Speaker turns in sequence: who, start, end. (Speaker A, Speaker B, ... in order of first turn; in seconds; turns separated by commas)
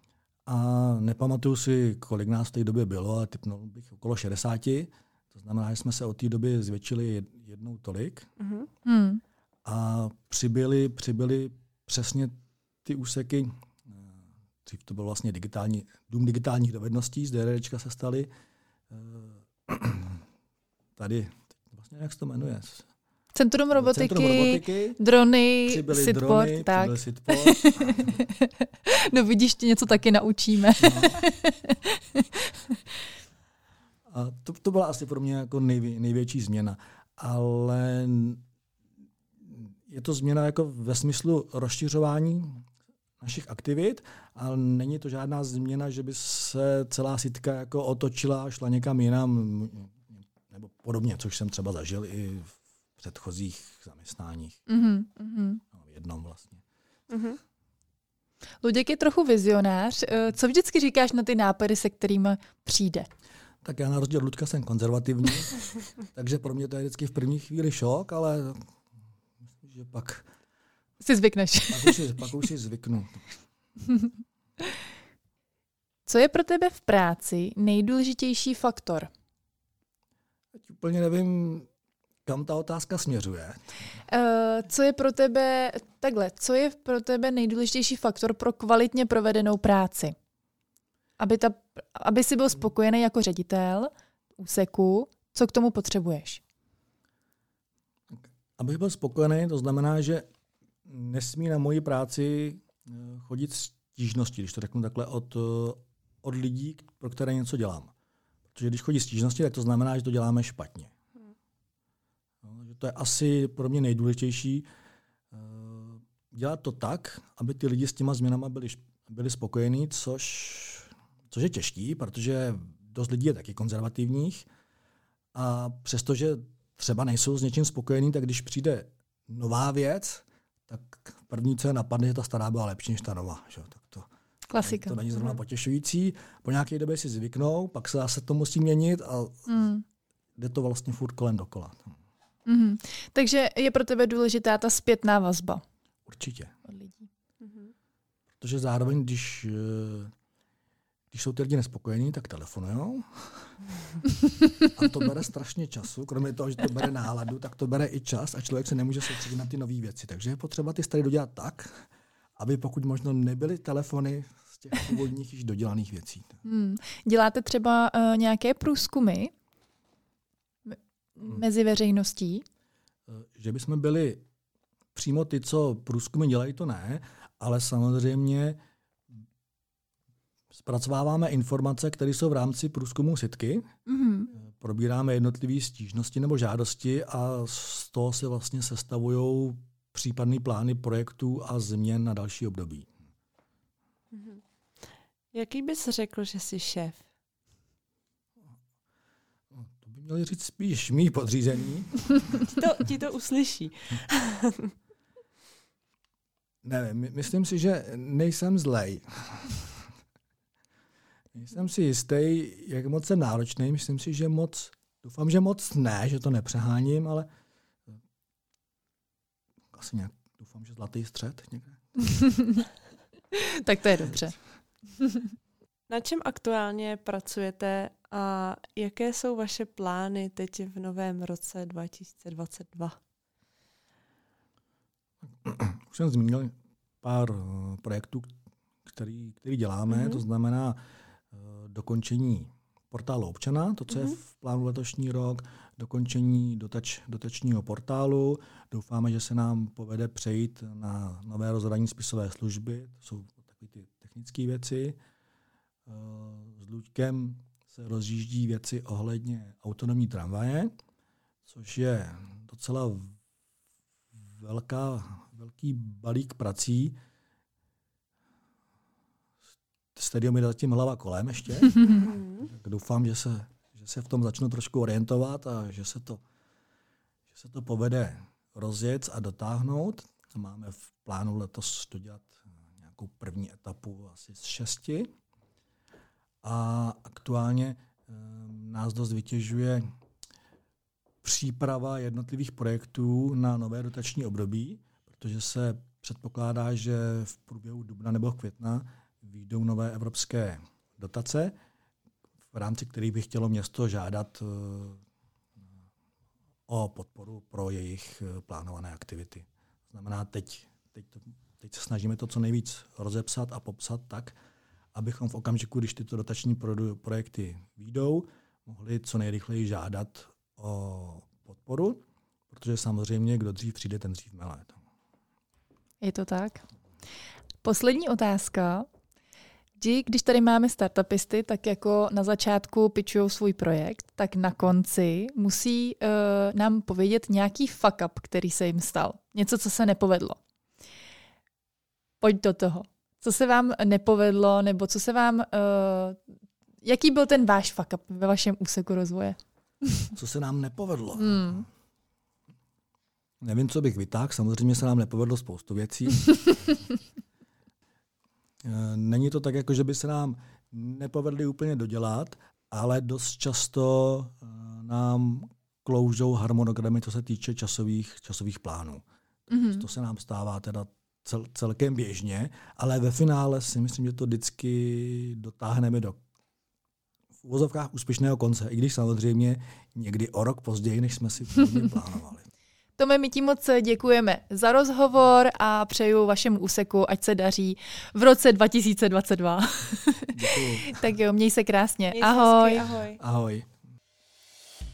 Speaker A: 0.5-8.3, Speaker B: 8.4-8.7, Speaker C: 8.8-9.2, Speaker A: 9.6-12.3, Speaker A: 12.8-18.3, Speaker A: 18.9-20.2, Speaker A: 21.0-22.9, Speaker C: 23.3-32.5, Speaker A: 23.7-25.0, Speaker A: 25.6-28.2, Speaker A: 30.8-31.2, Speaker A: 34.1-38.4, Speaker A: 39.4-42.6, Speaker A: 43.2-54.6, Speaker C: 54.7-55.6, Speaker A: 55.7-56.6, Speaker B: 57.1-57.4, Speaker C: 58.6-63.1, Speaker A: 63.6-68.6, Speaker A: 69.6-70.3, Speaker C: 71.0-72.0, Speaker A: 71.7-73.3, Speaker C: 76.0-79.1, Speaker A: 80.5-81.7, Speaker A: 82.2-83.7, Speaker C: 84.0-90.1, Speaker C: 91.2-96.4, Speaker A: 98.1-100.2, Speaker A: 100.8-107.9, Speaker A: 108.5-110.9, Speaker A: 112.4-114.7, Speaker A: 115.3-124.5, Speaker A: 125.3-139.7, Speaker C: 134.5-135.0, Speaker C: 139.5-139.8, Speaker A: 140.4-142.0, Speaker C: 142.4-145.6, Speaker A: 146.1-146.6, Speaker C: 146.7-147.1, Speaker B: 147.4-147.7, Speaker A: 148.4-150.1, Speaker A: 151.1-153.6, Speaker A: 154.6-161.8, Speaker A: 162.4-166.4, Speaker C: 166.4-169.3, Speaker C: 170.7-172.4, Speaker A: 173.1-174.2, Speaker A: 174.9-178.6, Speaker A: 180.5-183.7, Speaker C: 183.9-184.3, Speaker A: 184.3-192.9, Speaker B: 194.1-194.4, Speaker B: 195.3-197.0, Speaker A: 199.5-202.4, Speaker B: 202.5-204.7, Speaker A: 206.6-209.9, Speaker A: 211.3-217.3, Speaker A: 219.7-222.0, Speaker C: 222.3-222.6, Speaker C: 223.3-224.3, Speaker B: 225.9-233.0, Speaker A: 235.4-238.3, Speaker A: 238.9-240.8, Speaker B: 239.9-240.2, Speaker A: 241.3-255.0, Speaker B: 243.9-244.2, Speaker A: 255.8-260.7, Speaker A: 261.4-263.2, Speaker A: 264.3-266.9, Speaker A: 269.9-276.2, Speaker B: 271.9-272.5, Speaker A: 277.3-285.1, Speaker A: 286.4-289.8, Speaker A: 291.2-301.5, Speaker A: 302.5-305.0, Speaker A: 306.7-314.4, Speaker A: 314.9-324.8, Speaker C: 326.0-326.6, Speaker C: 327.6-328.9, Speaker C: 329.8-340.4, Speaker C: 342.2-346.2, Speaker C: 346.8-349.4, Speaker A: 350.1-351.6, Speaker C: 351.1-351.7, Speaker A: 353.4-356.6, Speaker A: 358.6-369.0, Speaker C: 369.5-369.8, Speaker A: 369.5-376.2, Speaker A: 377.4-382.5, Speaker C: 383.0-392.8, Speaker A: 390.3-391.0, Speaker B: 392.1-393.2, Speaker A: 393.1-393.7